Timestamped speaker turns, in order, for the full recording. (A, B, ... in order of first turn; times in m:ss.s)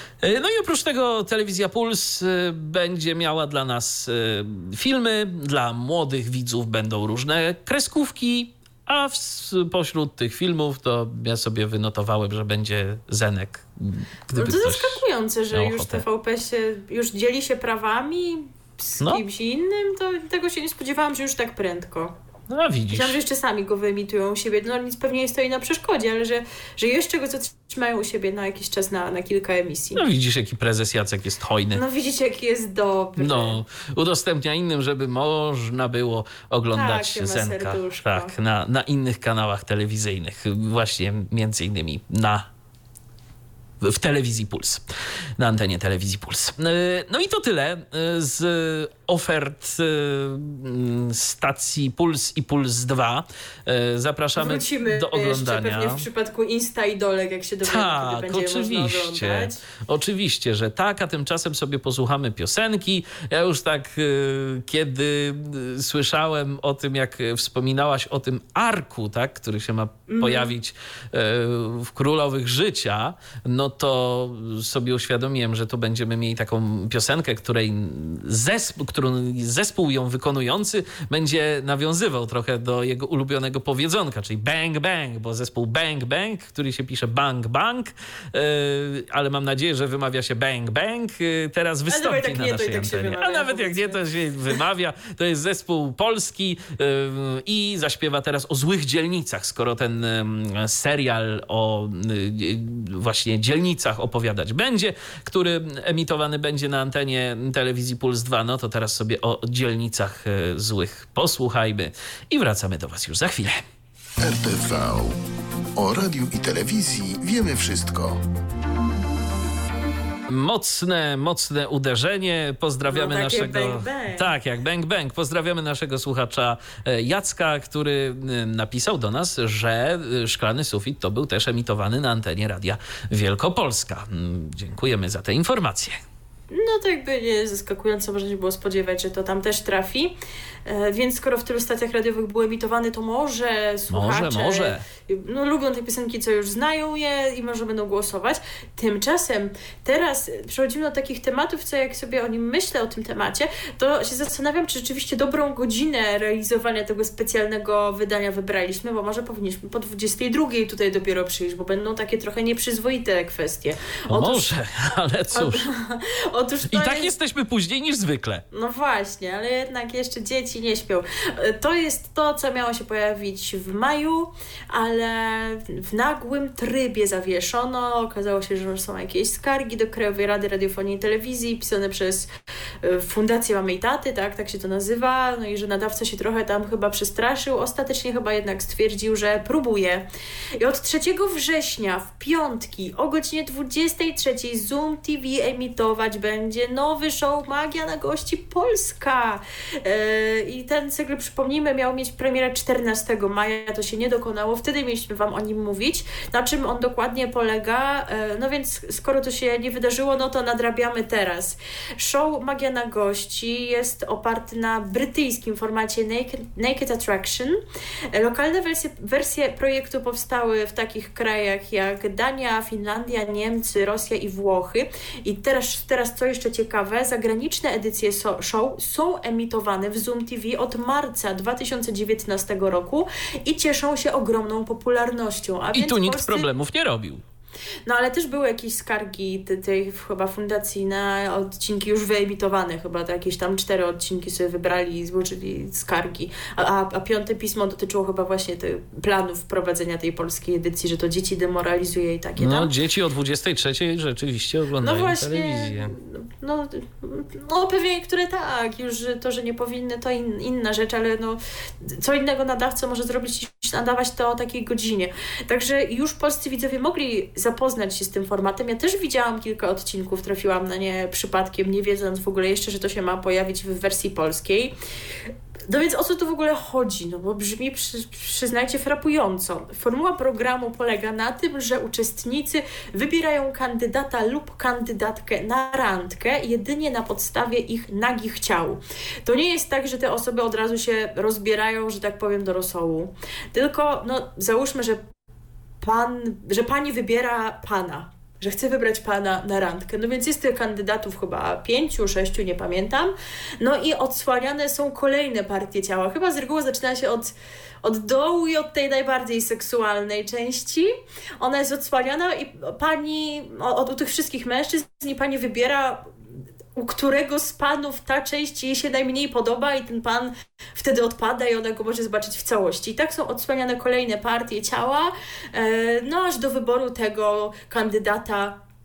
0:00.2-0:15.0 A
0:14.3-0:22.1 B
0:15.5-0:16.0 A
0:22.5-0:23.2 A
0:22.9-0:30.0 B
0:30.0-0:31.8 A
0:31.7-0:33.6 B
0:33.2-0:42.4 A
0:36.7-0:38.3 B
0:43.8-0:44.8 A
0:45.4-0:56.0 A
0:54.4-0:59.6 B
0:57.6-1:53.6 A
1:10.1-1:10.5 B
1:31.9-1:34.6 B
1:54.2-1:55.2 C
1:55.8-1:58.2 C
2:00.3-2:16.0 A
2:02.9-2:04.3 B
2:16.5-2:44.5 B
2:23.9-2:24.8 A
2:44.1-2:45.6 A
2:45.3-2:47.1 B
2:46.7-2:48.4 A
2:48.5-3:02.3 B
3:02.8-3:10.0 B
3:10.6-3:37.6 B
3:38.1-3:56.5 B
3:55.7-3:57.2 A
3:57.8-4:12.7 B
4:12.4-4:15.9 A
4:14.8-4:34.7 B
4:35.7-4:55.0 B
4:55.8-5:16.1 B
5:16.7-5:28.6 B